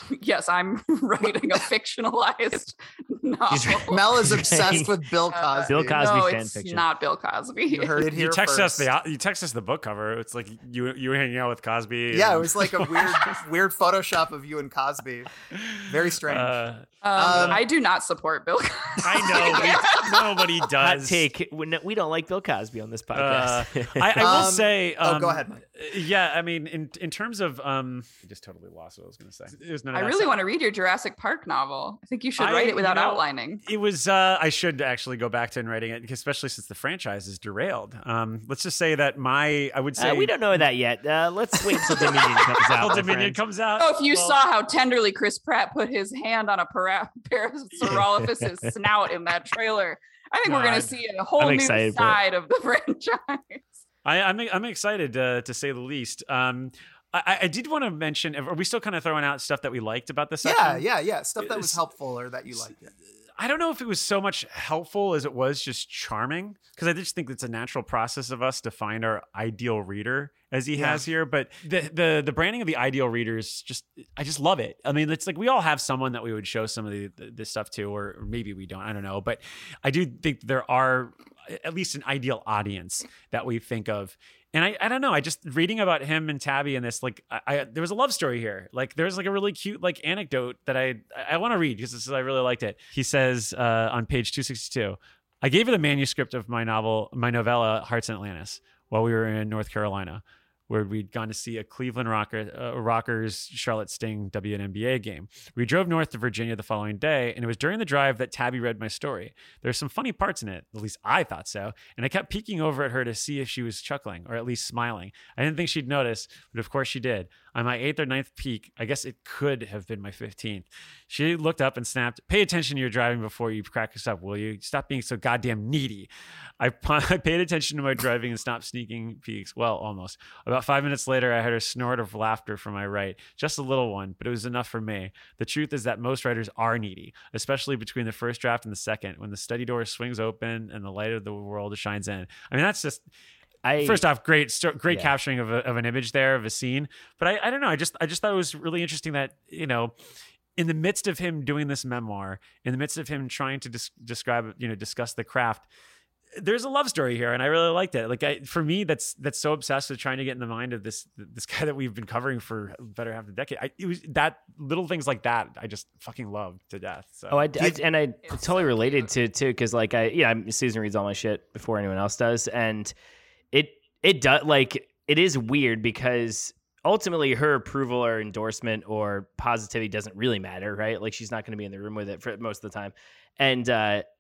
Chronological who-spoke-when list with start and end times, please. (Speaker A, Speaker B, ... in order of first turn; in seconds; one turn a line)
Speaker A: 0.1-4.1
Speaker B: 3.5-4.9
Speaker C: 3.9-6.0
Speaker A: 5.3-8.0
Speaker B: 5.7-6.8
Speaker C: 7.7-8.9
Speaker D: 8.0-13.3
Speaker C: 12.1-15.3
Speaker D: 15.5-17.6
Speaker C: 15.9-16.6
Speaker A: 17.0-20.4
Speaker C: 17.1-17.6
Speaker D: 19.0-21.3
Speaker B: 20.8-24.5
Speaker D: 23.1-30.4
Speaker C: 24.2-25.6
Speaker A: 29.9-33.6
Speaker D: 32.4-40.4
Speaker B: 40.0-43.4
Speaker D: 41.7-44.4
Speaker A: 43.8-53.8
Speaker B: 47.9-48.7
Speaker D: 50.5-50.9
Speaker B: 51.4-52.2
Speaker D: 54.0-60.8
Speaker C: 60.4-62.8
Speaker D: 61.4-61.8
Speaker D: 63.4-143.0
Speaker C: 70.7-71.1
Speaker B: 143.6-144.0
Speaker D: 143.8-150.0
Speaker D: 150.6-155.7
Speaker D: 156.4-167.5
Speaker B: 167.3-172.9
Speaker A: 168.2-169.1
Speaker B: 173.5-184.1